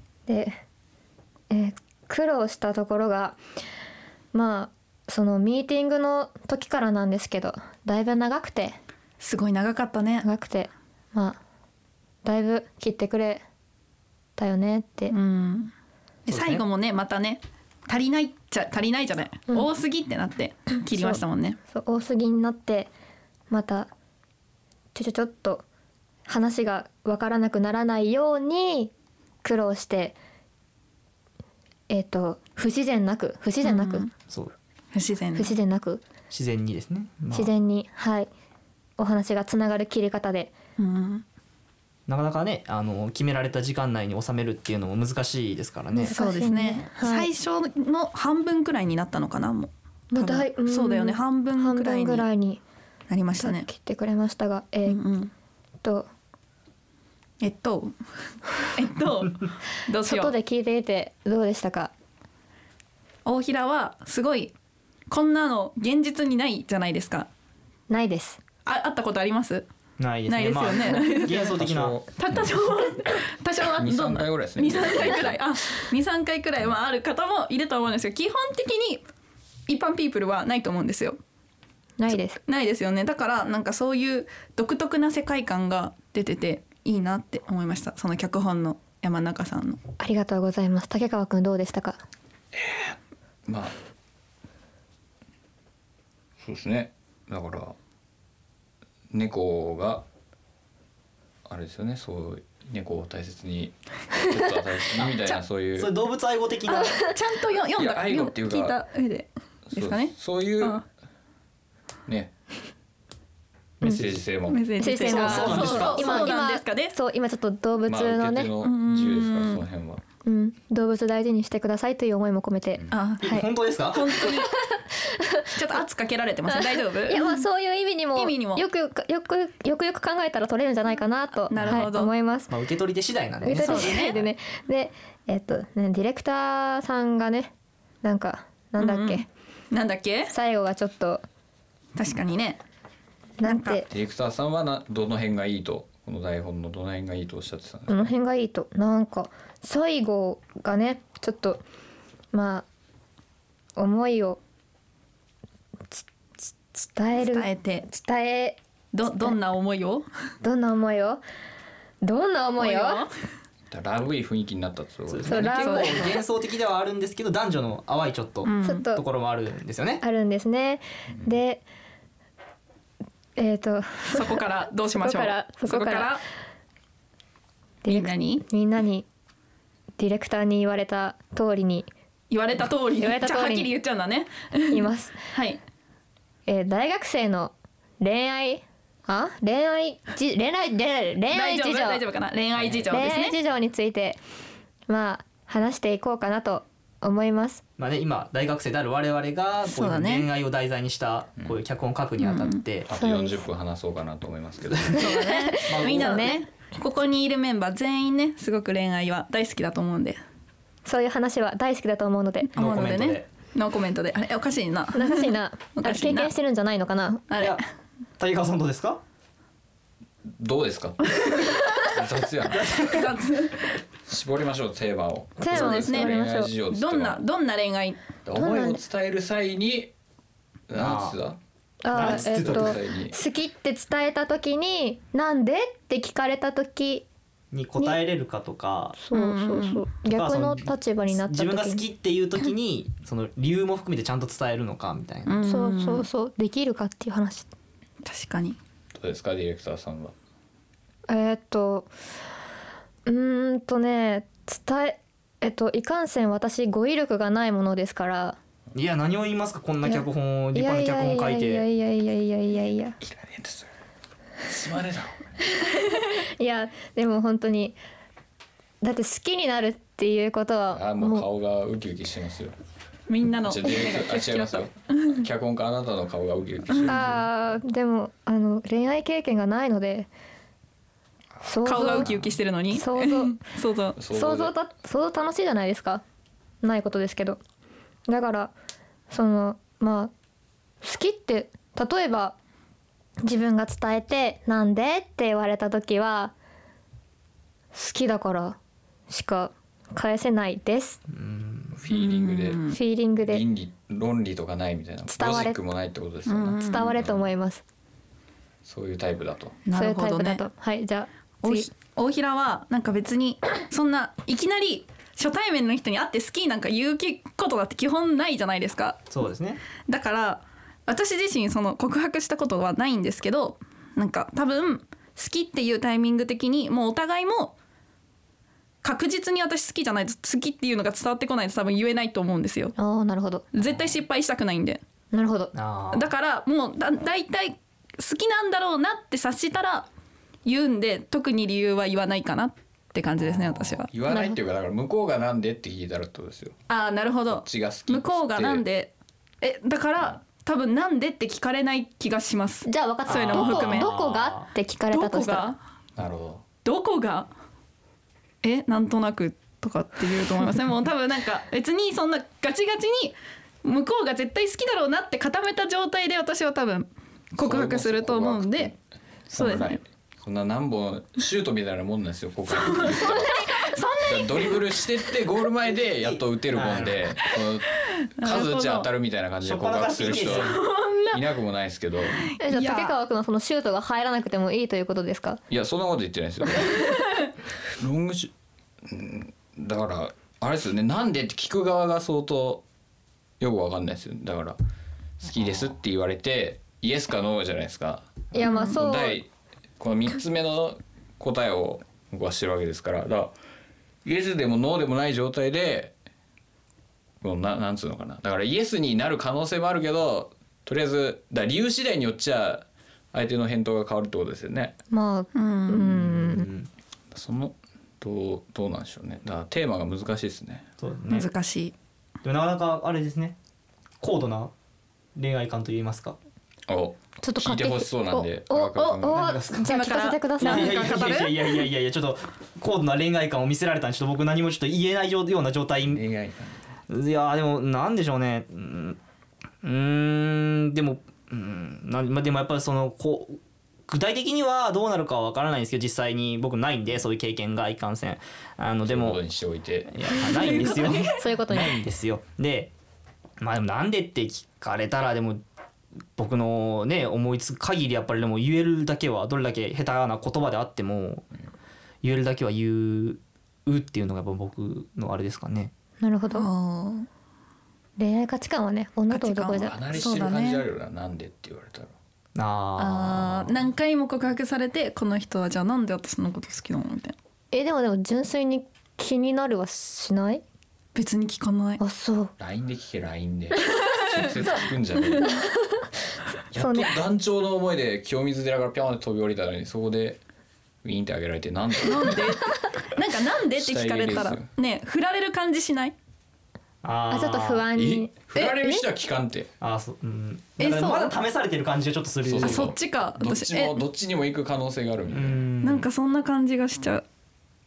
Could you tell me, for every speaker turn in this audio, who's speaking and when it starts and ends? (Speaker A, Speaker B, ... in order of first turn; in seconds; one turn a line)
Speaker A: 0.3-0.6
Speaker A: 1.5-3.4
Speaker A: 4.3-8.8
Speaker B: 9.2-10.2
Speaker A: 10.2-11.4
Speaker A: 12.2-13.4
Speaker A: 14.3-15.1
Speaker B: 15.1-15.7
Speaker B: 16.3-21.6
Speaker C: 16.3-16.6
Speaker A: 20.9-22.9
Speaker A: 23.5-23.9
Speaker A: 24.9-25.6
Speaker A: 26.3-28.9
Speaker A: 29.4-30.2
Speaker A: 31.9-34.0
Speaker B: 33.6-34.1
Speaker B: 34.9-35.5
Speaker A: 35.3-36.0
Speaker C: 36.3-37.5
Speaker A: 37.3-38.3
Speaker A: 39.0-40.5
Speaker B: 40.8-41.2
Speaker C: 42.1-46.1
Speaker A: 45.9-47.3
Speaker B: 46.1-52.3
Speaker A: 50.1-52.6
Speaker B: 53.1-53.7
Speaker A: 53.4-55.0
Speaker B: 54.9-55.3
Speaker A: 55.8-56.1
Speaker B: 57.4-57.9
Speaker B: 58.7-60.3
Speaker A: 60.0-61.9
Speaker B: 63.2-64.5
Speaker B: 65.1-67.3
Speaker A: 67.9-68.4
Speaker B: 68.7-69.7
Speaker C: 70.0-72.0
Speaker B: 70.3-71.5
Speaker D: 71.3-72.5
Speaker B: 72.2-79.0
Speaker D: 73.6-75.4
Speaker B: 79.7-81.2
Speaker A: 82.0-82.4
Speaker B: 82.1-89.8
Speaker A: 90.0-92.0
Speaker D: 92.5-93.7
Speaker D: 96.4-97.7
Speaker D: 99.1-100.0
Speaker D: 101.5-105.9
Speaker C: 105.0-105.2
Speaker C: 105.7-107.0
Speaker B: 106.7-110.8
Speaker A: 106.7-107.1
Speaker D: 107.7-108.8
Speaker D: 109.7-110.8
Speaker D: 112.0-112.3
Speaker C: 113.8-114.2
Speaker D: 113.9-116.0
Speaker B: 114.5-116.9
Speaker A: 114.8-118.5
Speaker C: 114.8-116.3
Speaker D: 117.8-120.0
Speaker B: 118.6-119.6
Speaker A: 120.2-123.5
Speaker B: 122.9-123.4
Speaker C: 123.2-124.1
Speaker B: 123.9-124.5
Speaker A: 124.2-125.5
Speaker B: 125.5-127.4
Speaker A: 126.7-132.5
Speaker B: 128.1-128.6
Speaker B: 131.5-132.1
Speaker C: 131.6-131.9
Speaker C: 132.5-134.2
Speaker A: 133.4-137.5
Speaker B: 133.5-134.2
Speaker A: 138.0-139.2
Speaker B: 138.8-140.3
Speaker A: 140.3-141.2
Speaker B: 141.9-142.6
Speaker A: 143.4-143.9
Speaker B: 143.4-143.8
Speaker D: 143.9-148.1
Speaker A: 147.9-151.6
Speaker A: 152.3-152.7
Speaker A: 153.8-154.4
Speaker A: 155.9-159.3
Speaker B: 157.2-157.8
Speaker B: 158.9-160.1
Speaker A: 160.4-161.2
Speaker A: 162.0-163.0
Speaker B: 162.6-163.1
Speaker D: 163.7-165.7
Speaker C: 165.1-170.0
Speaker A: 165.3-166.2
Speaker B: 165.5-166.2
Speaker B: 168.4-168.8
Speaker A: 168.6-169.0
Speaker A: 170.0-171.6
Speaker A: 173.4-174.3
Speaker B: 174.1-176.2
Speaker A: 175.0-176.1
Speaker A: 177.8-179.1
Speaker B: 177.9-178.4
Speaker A: 180.0-181.9
Speaker B: 182.3-185.6
Speaker A: 183.0-183.7
Speaker A: 184.7-185.2
Speaker A: 186.5-192.0
Speaker B: 191.3-193.3
Speaker C: 192.6-192.9
Speaker A: 192.9-194.2
Speaker A: 194.9-197.6
Speaker C: 197.8-202.9
Speaker B: 199.6-200.3
Speaker B: 202.2-202.6
Speaker D: 202.9-205.0
Speaker A: 202.9-203.4
Speaker B: 204.9-210.2
Speaker A: 205.0-206.4
Speaker C: 205.7-206.3
Speaker A: 210.8-212.5
Speaker B: 212.5-216.3
Speaker C: 212.6-213.2
Speaker A: 214.9-217.2
Speaker B: 217.3-217.6
Speaker C: 218.2-219.0
Speaker D: 220.4-222.7
Speaker C: 222.5-223.1
Speaker B: 222.9-223.7
Speaker D: 224.1-227.2
Speaker A: 225.4-226.5
Speaker B: 225.5-228.0
Speaker D: 228.2-229.9
Speaker A: 228.3-228.8
Speaker D: 230.7-231.4
Speaker C: 230.8-231.2
Speaker A: 231.8-237.1
Speaker C: 231.9-232.8
Speaker D: 231.9-233.2
Speaker C: 237.5-239.0
Speaker A: 239.0-241.8
Speaker B: 239.1-239.8
Speaker C: 240.1-245.5
Speaker B: 245.2-246.1
Speaker A: 245.4-247.5
Speaker B: 248.0-248.6
Speaker D: 248.9-250.1
Speaker A: 251.1-251.9
Speaker A: 253.1-258.4
Speaker C: 258.7-261.6
Speaker A: 259.8-263.0
Speaker D: 263.0-263.7
Speaker D: 264.4-265.3
Speaker A: 265.6-267.8
Speaker A: 268.8-271.2
Speaker D: 270.7-272.5
Speaker B: 273.1-275.2
Speaker D: 273.4-277.2
Speaker A: 276.9-280.1
Speaker D: 281.4-282.3
Speaker A: 281.4-282.1
Speaker B: 281.6-284.0
Speaker A: 282.7-283.4
Speaker D: 283.9-284.5
Speaker A: 284.1-286.0
Speaker A: 286.6-287.4
Speaker A: 288.1-288.5
Speaker A: 289.1-290.1
Speaker A: 290.8-292.4
Speaker A: 293.2-296.3
Speaker A: 297.7-298.6
Speaker A: 299.1-301.0
Speaker C: 301.1-301.8
Speaker D: 301.7-302.6
Speaker B: 301.9-302.8
Speaker A: 302.7-303.4
Speaker D: 303.3-307.3
Speaker A: 305.1-305.6
Speaker B: 306.2-306.9
Speaker A: 306.6-307.6
Speaker D: 308.6-309.6
Speaker B: 309.6-310.4
Speaker A: 309.7-311.7
Speaker B: 311.4-319.0
Speaker C: 319.1-319.6
Speaker B: 319.9-327.5
Speaker B: 328.8-332.7
Speaker A: 332.8-333.4
Speaker B: 333.5-334.8
Speaker A: 335.1-335.5
Speaker C: 335.5-336.1
Speaker B: 335.9-339.9
Speaker B: 340.4-343.9
Speaker D: 343.6-346.5
Speaker A: 344.1-344.4
Speaker B: 346.7-353.9
Speaker D: 347.3-348.6
Speaker A: 352.6-355.5
Speaker C: 353.1-354.5
Speaker B: 354.9-355.6
Speaker D: 355.9-356.4
Speaker B: 356.6-357.3
Speaker B: 358.4-368.7
Speaker D: 367.4-368.8
Speaker D: 369.3-373.4
Speaker B: 369.3-369.8
Speaker B: 372.5-375.1
Speaker D: 374.0-380.5
Speaker C: 376.0-377.0
Speaker B: 378.2-378.9
Speaker C: 379.4-380.5
Speaker B: 380.1-381.2
Speaker D: 381.1-382.2
Speaker B: 382.2-383.0
Speaker A: 382.4-385.4
Speaker D: 385.5-387.0
Speaker D: 387.8-388.3
Speaker D: 388.9-392.6
Speaker D: 393.4-394.6
Speaker D: 395.2-399.3
Speaker A: 398.3-399.2
Speaker B: 398.4-398.7
Speaker D: 399.8-403.3
Speaker D: 404.0-405.9
Speaker D: 407.2-414.8
Speaker A: 414.9-416.5
Speaker B: 415.3-416.0
Speaker C: 416.1-416.7
Speaker D: 417.1-420.7
Speaker C: 420.8-421.3
Speaker B: 421.1-421.7
Speaker C: 422.2-423.3
Speaker C: 424.0-424.5
Speaker C: 425.1-426.1
Speaker D: 426.7-429.3
Speaker A: 427.2-427.9
Speaker B: 428.1-431.6
Speaker A: 428.5-431.1
Speaker C: 429.1-429.7
Speaker C: 430.4-436.0
Speaker D: 435.9-436.6
Speaker C: 436.9-439.0
Speaker C: 439.6-449.2
Speaker D: 448.8-450.1
Speaker C: 449.9-452.7
Speaker B: 450.1-451.2
Speaker A: 451.2-451.8
Speaker C: 453.4-455.4
Speaker C: 456.1-461.3
Speaker C: 462.0-465.7
Speaker A: 466.0-466.5
Speaker B: 466.3-467.1
Speaker A: 468.0-469.8
Speaker B: 469.1-470.6
Speaker D: 469.5-471.9
Speaker C: 472.3-473.5
Speaker B: 472.8-477.1
Speaker A: 477.5-480.4
Speaker B: 480.9-481.8
Speaker A: 481.8-482.3
Speaker D: 482.4-485.4
Speaker D: 486.5-490.2
Speaker A: 486.5-487.0
Speaker D: 490.8-492.4
Speaker B: 491.8-495.9
Speaker D: 493.5-494.5
Speaker C: 496.8-497.7
Speaker A: 497.1-498.8
Speaker D: 497.7-499.5
Speaker C: 499.6-502.7
Speaker B: 500.6-501.1
Speaker D: 502.2-505.5
Speaker B: 502.4-503.8
Speaker C: 505.1-505.9
Speaker B: 505.6-507.0